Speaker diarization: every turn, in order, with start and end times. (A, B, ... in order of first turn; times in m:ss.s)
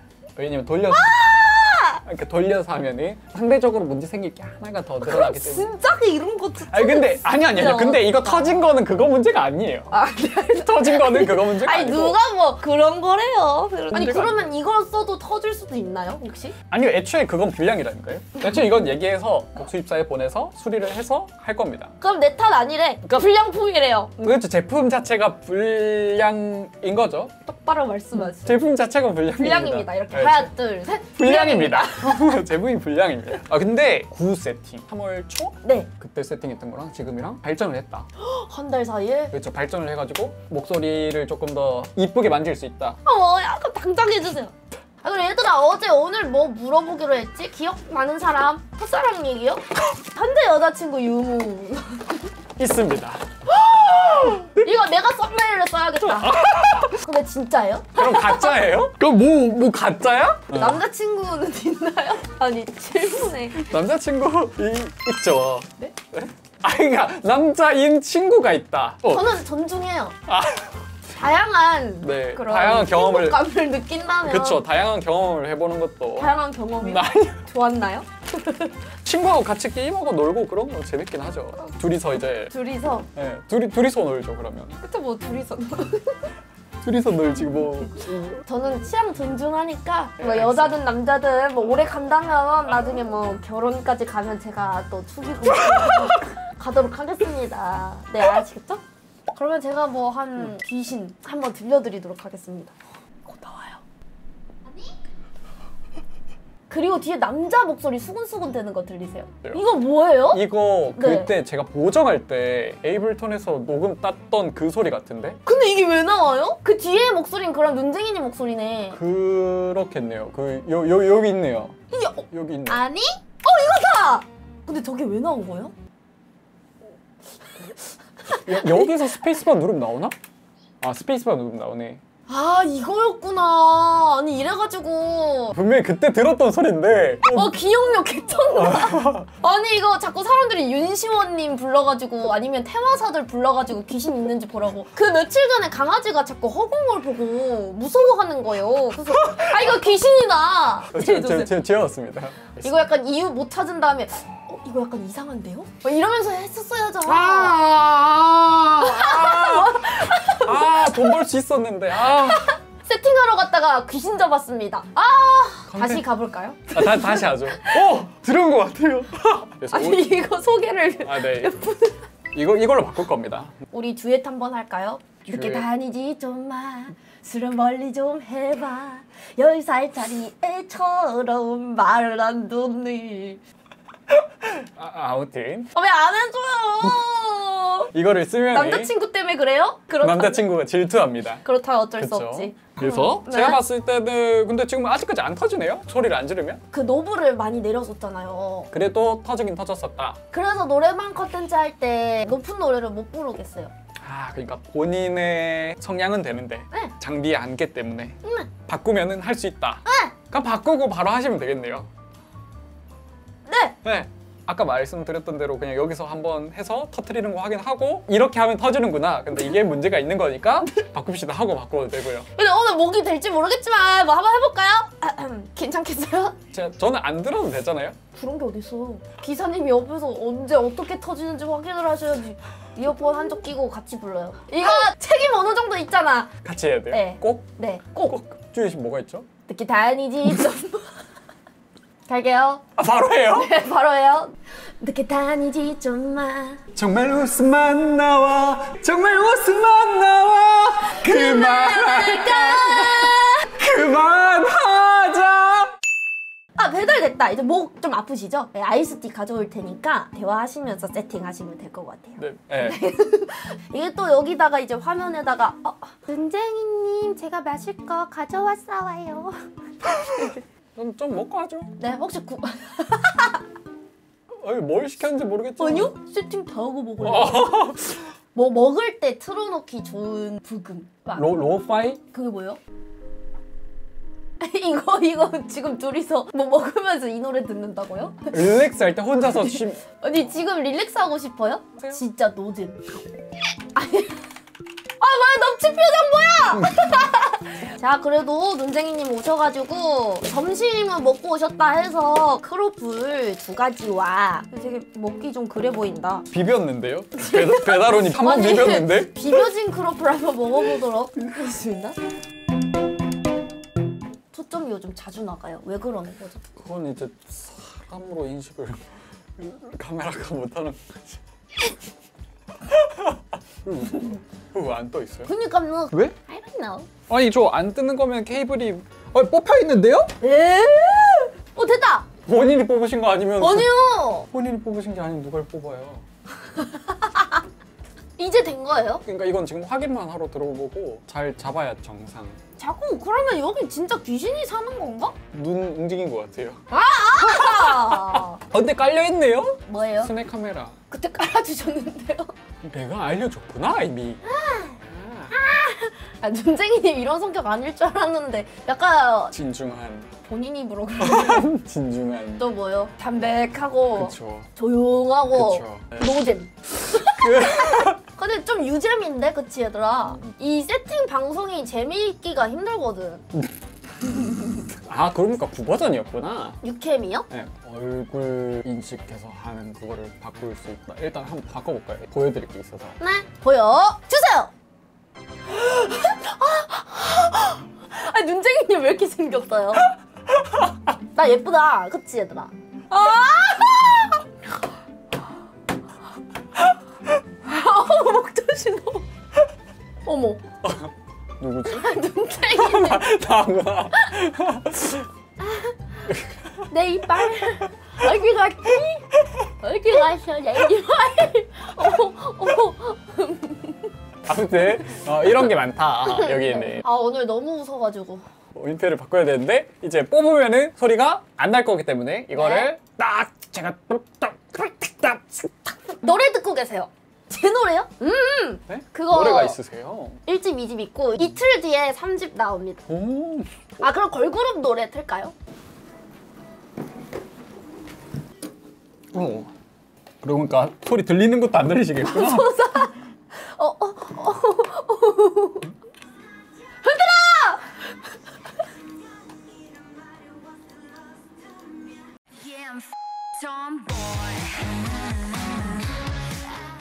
0:00.4-0:01.2 A
0:00.9-0:02.0 B
0:02.0-0:05.7 A
0:05.0-0:08.6 B
0:06.7-0:09.9 A
0:09.9-0:16.6 B
0:10.5-0:12.2 A
0:13.9-0:14.4 A
0:16.7-0:21.9 A
0:22.0-0:24.2 B
0:23.0-0:23.3 A
0:24.2-0:27.3 A
0:27.4-0:28.6 B
0:28.2-0:30.5 A
0:29.3-0:32.3 B
0:31.1-0:38.1 A
0:35.6-0:35.9 B
0:38.2-0:39.3 B
0:39.3-0:43.0 A
0:43.0-0:52.3 B
0:52.6-0:53.2 A
0:53.6-0:58.6 B
0:54.0-0:54.6 A
0:56.0-0:56.9 A
0:58.0-1:00.8 A
1:00.5-1:03.6 B
1:03.5-1:09.2 A
1:09.1-1:10.2 B
1:10.3-1:10.8 A
1:11.1-1:14.6 B
1:12.0-1:13.4 A
1:14.3-1:17.4 A
1:16.2-1:18.7 B
1:19.0-1:22.5 A
1:22.5-1:23.1 B
1:23.1-1:24.8 A
1:24.8-1:26.3 B
1:26.8-1:28.4 A
1:28.4-1:43.8 B
1:30.2-1:30.8 A
1:46.7-1:50.4 B
1:50.3-1:55.4 A
1:51.0-1:51.3 B
1:55.4-1:59.0 B
1:58.9-2:01.8 A
2:01.9-2:05.7 B
2:02.3-2:02.8 A
2:08.3-2:10.1 A
2:08.3-2:08.9 B
2:10.8-2:12.0 A
2:12.3-2:15.6 B
2:15.5-2:17.6 A
2:17.3-2:31.5 B
2:18.4-2:19.3 A
2:29.1-2:29.8 A
2:30.9-2:32.7 A
2:32.6-2:37.6 B
2:37.0-2:42.5 A
2:38.7-2:41.2 B
2:42.0-2:48.0 B
2:45.7-2:46.0 A
2:46.7-2:50.1 A
2:49.7-2:52.0 B
2:51.0-2:51.7 A
2:52.3-2:53.5 A
2:53.7-3:03.4 B
2:55.3-2:55.6 A
3:04.4-3:05.7 A
3:05.7-3:07.9 B
3:07.9-3:08.9 A
3:08.5-3:10.4 B
3:10.0-3:11.4 A
3:11.4-3:13.6 B
3:12.0-3:16.6 A
3:16.7-3:18.7 B
3:18.7-3:20.2 A
3:20.3-3:23.7 B
3:24.0-3:31.9 A
3:28.2-3:28.5 B
3:29.8-3:30.1 B
3:33.5-3:33.8 B
3:33.8-3:42.3 A
3:42.3-3:46.4 B
3:46.5-3:48.0 A
3:48.1-3:56.3 B
3:56.4-3:57.5 A
3:56.9-3:58.2 B
3:58.0-3:59.3 A
3:59.5-4:01.0 B
4:02.1-4:02.6 B
4:02.8-4:03.6 A
4:03.3-4:06.6 B
4:06.7-4:15.7 A
4:10.9-4:13.5 B
4:16.6-4:30.4 B
4:22.2-4:22.8 A
4:30.8-4:31.8 A
4:31.8-4:33.4 B
4:34.4-4:35.9 A
4:35.6-4:37.6 B
4:37.0-4:38.1 A
4:38.3-4:41.4 B
4:41.1-4:42.0 A
4:42.1-4:42.6 B
4:44.4-4:48.5 B
4:48.3-4:49.8 A
4:49.3-4:53.0 B
4:53.7-4:54.2 B
4:55.0-5:06.2 B
4:56.5-4:57.0 A
5:06.3-5:09.2 A
5:07.2-5:12.0 B
5:14.3-5:16.4 B
5:16.6-5:21.2 A
5:22.7-5:25.3 A
5:25.3-5:26.9 B
5:27.1-5:30.2 A
5:30.2-5:32.1 B
5:32.2-5:33.7 A
5:33.4-5:34.3 B
5:34.3-5:36.0 A
5:36.6-5:37.4 B
5:38.2-5:39.0 B
5:39.0-5:42.4 A
5:42.6-5:45.1 B
5:45.3-5:46.6 A
5:46.7-5:48.4 B
5:47.2-5:50.7 A
5:49.6-5:50.1 B
5:50.9-5:52.3 B
5:52.6-5:54.2 A
5:54.3-5:54.8 B
5:54.9-5:55.3 A
5:55.3-5:59.3 B
5:59.3-6:00.1 A
6:00.2-6:01.5 B
6:01.0-6:02.4 A
6:02.4-6:13.2 B
6:04.0-6:04.5 A
6:05.3-6:06.0 A
6:06.9-6:08.0 A
6:14.6-6:16.6 A
6:16.6-6:17.3 B
6:17.3-6:23.0 A
6:23.0-6:24.5 B
6:25.5-6:29.9 B
6:31.1-6:34.2 B
6:37.4-6:39.0 B
6:40.0-6:40.4 B
6:40.6-6:45.1 A
6:41.6-6:43.0 B
6:45.4-6:45.8 B
6:46.1-6:46.3 A
6:46.7-6:53.9 B
6:54.2-6:56.8 A
6:56.2-6:58.2 B
6:58.5-7:05.6 A
7:02.3-7:02.7 B
7:05.9-7:09.6 B
7:08.7-7:10.2 A
7:10.2-7:12.8 B
7:12.9-7:13.5 A
7:13.8-7:15.3 B
7:19.1-7:19.5 A
7:20.2-7:22.5 A
7:22.0-7:25.7 B
7:26.8-7:27.9 B
7:32.5-7:32.8 B
7:33.4-7:34.7 B